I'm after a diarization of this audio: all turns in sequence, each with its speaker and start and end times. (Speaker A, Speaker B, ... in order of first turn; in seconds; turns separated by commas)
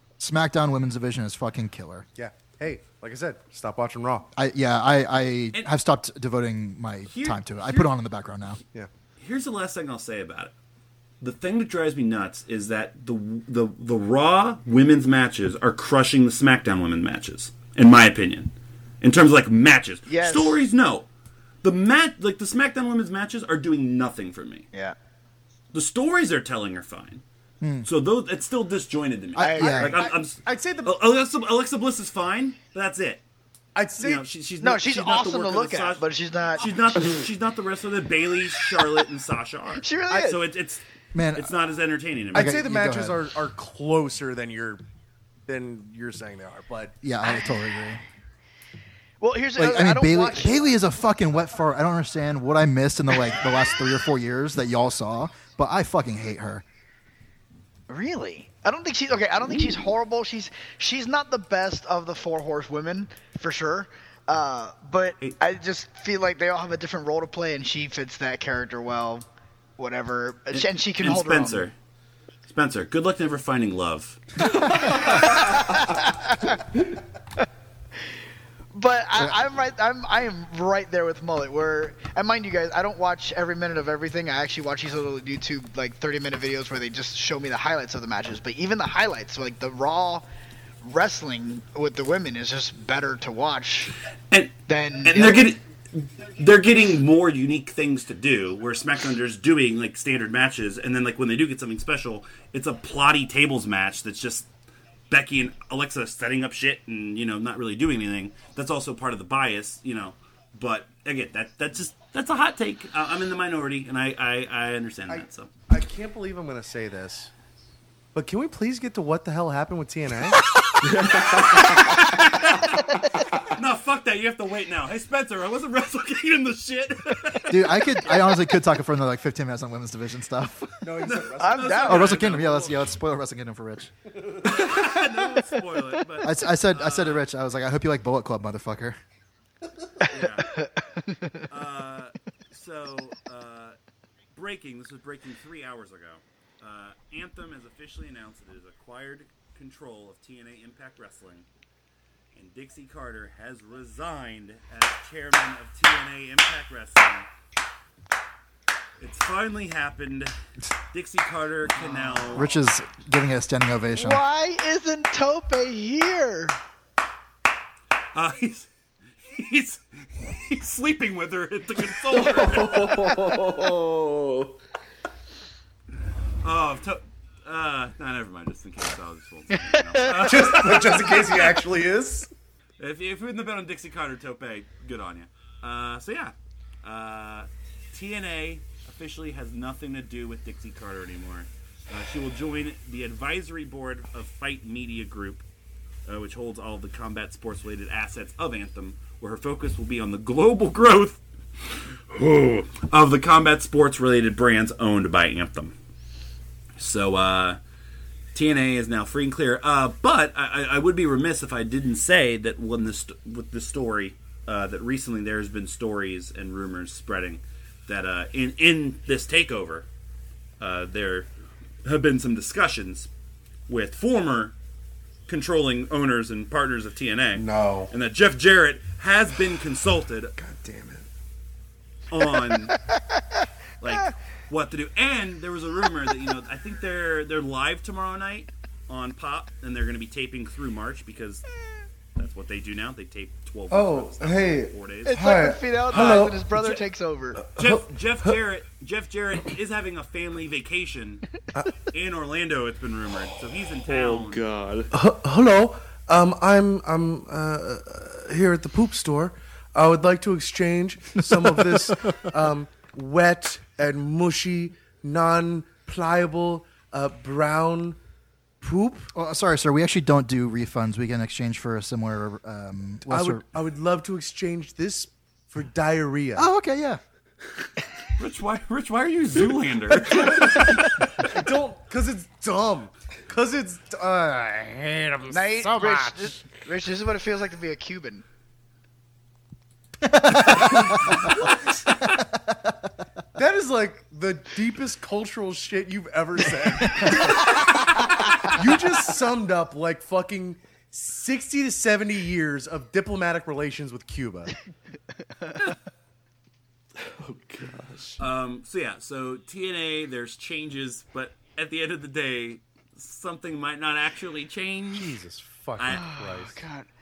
Speaker A: 0.2-2.0, Speaker B: 2.1-4.3, Speaker A: 4.3-8.6, Speaker C: 7.1-7.9, Speaker C: 9.2-10.5, Speaker C: 11.2-18.5, Speaker C: 19.0-21.1, Speaker D: 20.1-20.6, Speaker C: 21.6-24.6, Speaker C: 25.7-27.2, Speaker A: 27.6-27.9, Speaker C: 27.8-33.2, Speaker A: 29.4-30.0, Speaker D: 29.4-30.1, Speaker B: 30.4-31.0, Speaker B: 33.7-34.3, Speaker C: 34.0-40.8, Speaker D: 34.6-37.1, Speaker D: 39.8-40.5, Speaker A: 41.1-41.5, Speaker C: 41.3-42.6, Speaker A: 42.3-43.2, Speaker B: 42.3-44.8, Speaker B: 45.5-47.0, Speaker A: 47.0-48.0, Speaker D: 49.2-50.6, Speaker A: 49.5-56.6, Speaker D: 57.9-69.3, Speaker D: 69.8-71.7, Speaker C: 70.5-71.7, Speaker C: 72.5-74.2, Speaker D: 74.6-76.6, Speaker D: 78.7-90.2, Speaker D: 90.8-93.9, Speaker C: 94.3-104.5, Speaker D: 94.7-95.5, Speaker C: 105.1-115.5, Speaker B: 115.1-117.3, Speaker B: 118.1-120.4, Speaker E: 120.8-122.1, Speaker C: 121.2-122.9, Speaker C: 123.5-127.9, Speaker A: 127.5-130.8, Speaker B: 130.8-132.4, Speaker C: 131.0-132.8, Speaker D: 131.4-132.1, Speaker A: 131.8-133.9, Speaker C: 134.4-137.2, Speaker A: 136.2-139.0, Speaker C: 140.1-140.6, Speaker C: 141.5-143.8, Speaker C: 144.3-151.5, Speaker C: 152.3-157.3, Speaker C: 159.0-160.3, Speaker C: 160.9-162.5, Speaker A: 162.3-164.2, Speaker D: 163.9-166.6, Speaker C: 168.1-168.7, Speaker C: 169.2-173.1, Speaker E: 172.1-174.6, Speaker C: 176.4-181.3, Speaker D: 180.0-180.7, Speaker B: 180.1-182.3, Speaker C: 182.8-195.4, Speaker C: 196.1-201.2, Speaker C: 202.1-205.8, Speaker C: 206.8-207.6, Speaker C: 208.3-219.9, Speaker C: 220.6-221.3, Speaker C: 221.8-223.1, Speaker C: 223.7-224.5, Speaker C: 225.3-230.3, Speaker B: 227.3-227.9, Speaker B: 230.4-231.1, Speaker C: 232.1-232.8, Speaker C: 233.8-241.4, Speaker C: 242.2-245.2, Speaker B: 243.7-246.4, Speaker D: 245.0-247.4, Speaker C: 245.9-246.8, Speaker B: 247.4-248.3, Speaker C: 247.5-251.2, Speaker C: 251.9-254.4, Speaker E: 253.9-254.9, Speaker B: 254.9-268.0, Speaker B: 268.6-269.1, Speaker A: 269.1-273.4, Speaker B: 273.1-276.5, Speaker A: 276.4-277.0, Speaker C: 278.2-280.7, Speaker B: 280.1-286.4, Speaker D: 285.3-288.2, Speaker A: 290.0-291.2, Speaker B: 290.6-291.7, Speaker B: 293.3-297.9, Speaker B: 298.5-304.6, Speaker E: 307.0-308.2, Speaker C: 308.2-315.2, Speaker B: 314.9-316.6, Speaker C: 315.8-316.2, Speaker D: 315.9-316.9